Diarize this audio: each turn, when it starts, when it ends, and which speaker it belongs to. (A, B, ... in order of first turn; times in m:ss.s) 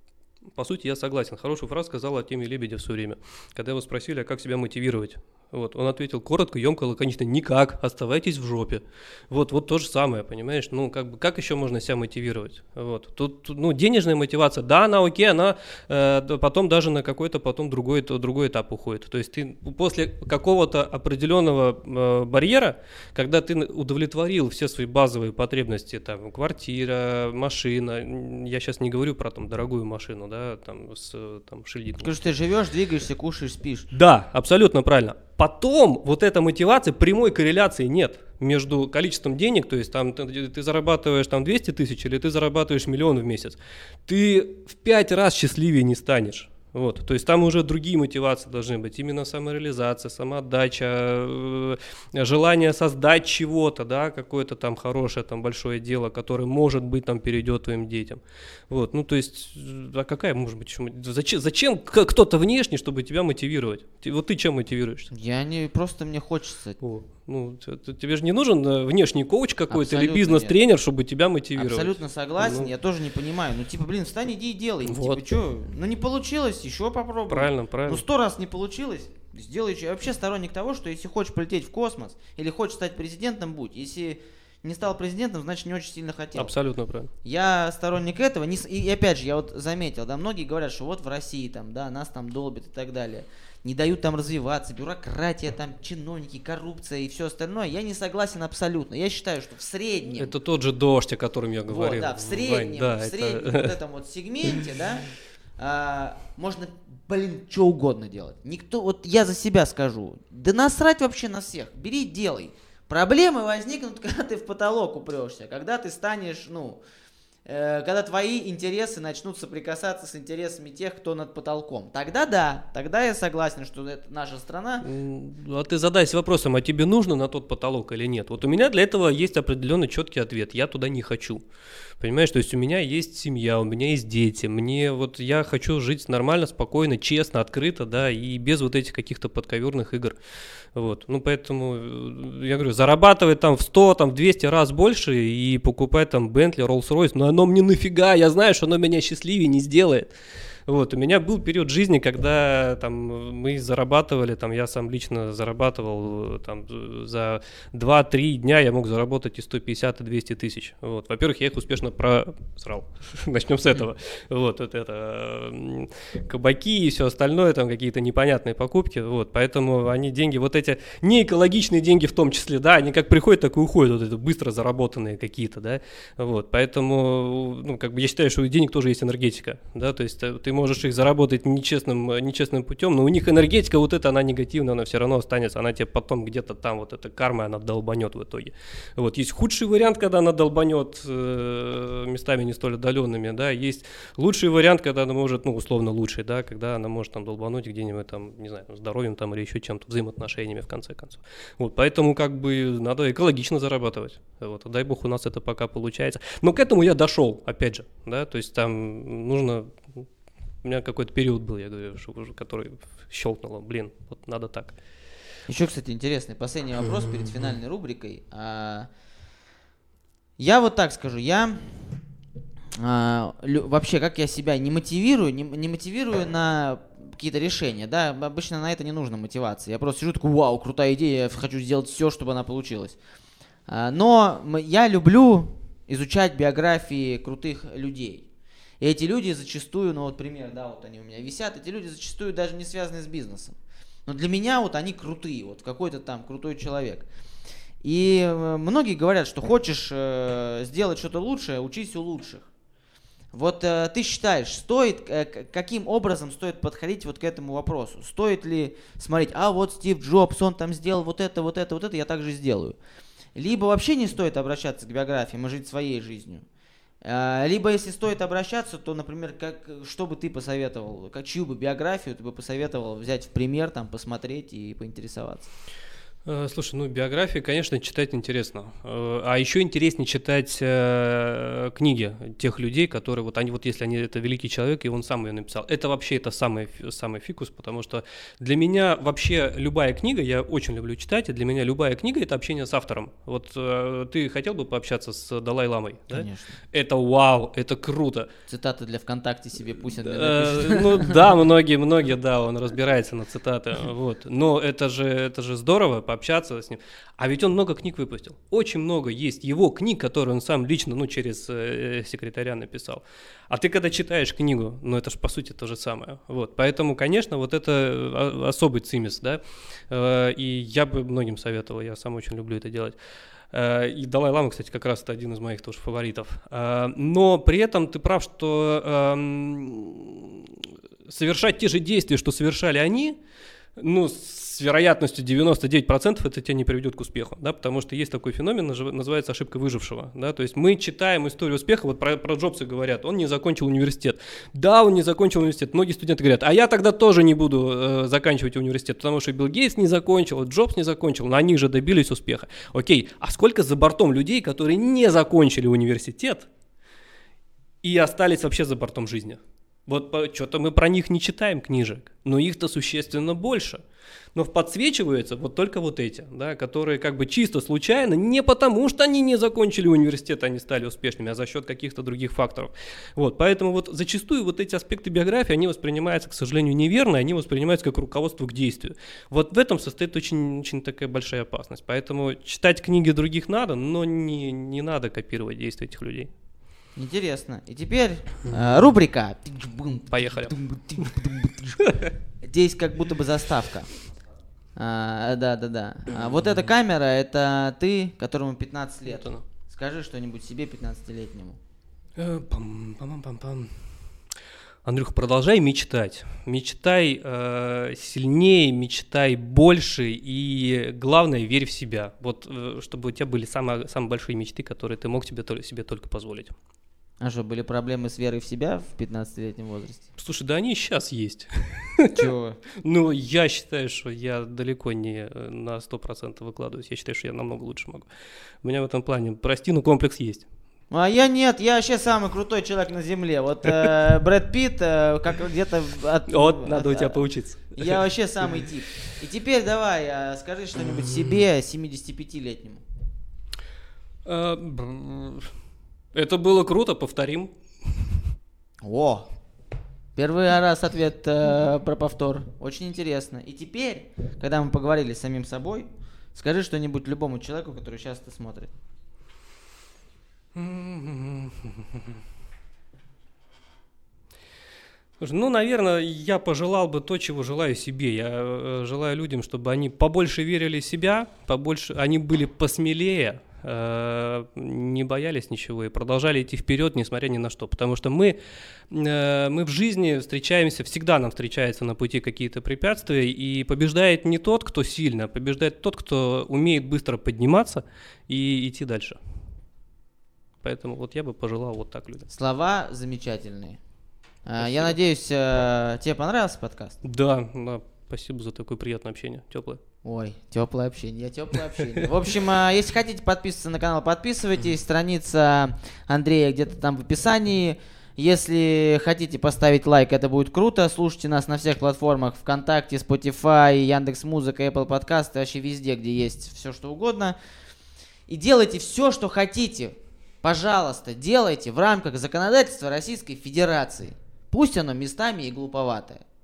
0:00.5-0:32.1 A
0:32.0-0:33.9 B
0:33.9-1:05.1 A
1:05.1-1:06.8 B
1:06.8-1:12.7 A
1:09.7-1:10.6 B
1:11.6-1:26.5 B
1:14.8-1:15.3 A
1:17.3-1:18.0 A
1:26.4-1:27.1 A
1:27.2-1:40.3 B
1:40.2-1:43.7 A
1:41.7-1:56.8 B
1:57.4-2:04.8 B
2:04.8-2:11.4 A
2:12.0-2:20.2 A
2:20.7-2:30.1 A
2:30.6-3:30.1 A
3:30.6-3:34.8 A
3:35.5-3:38.9 B
3:40.4-3:41.9 B
3:42.8-3:53.0 B
3:53.7-3:58.3 B
3:58.8-4:03.5 B
4:04.1-4:07.0 B
4:07.8-4:12.5 B
4:13.3-4:22.8 B
4:23.3-4:26.4 B
4:27.0-4:35.5 B
4:36.2-4:58.3 A
4:56.1-4:56.6 B
4:58.5-5:01.2 B
4:59.8-5:23.0 A
5:23.5-5:33.2 A
5:33.8-5:56.5 A
5:57.8-6:03.8 A
6:04.3-6:26.3 A
6:27.0-6:33.9 B
6:30.1-6:31.1 A
6:31.8-6:32.1 A
6:34.8-6:41.6 B
6:39.1-6:39.4 A
6:42.2-6:43.7 A
6:44.8-6:56.5 A
6:57.2-7:00.0 B
7:00.2-7:08.1 A
7:02.1-7:02.6 B
7:08.6-7:10.4 A
7:10.9-7:17.2 B
7:16.3-7:18.0 A
7:17.7-7:22.8 B
7:24.2-7:25.5 A
7:26.1-7:27.5 A
7:28.8-7:29.3 B
7:30.2-7:38.7 B
7:40.5-7:42.2 A
7:45.2-7:58.4 A
7:58.9-8:09.2 A
8:10.6-8:12.3 A
8:12.3-8:13.8 B
8:14.4-8:17.0 B
8:17.0-8:19.8 A
8:20.0-8:37.4 B
8:21.8-8:22.1 A
8:38.3-8:46.2 B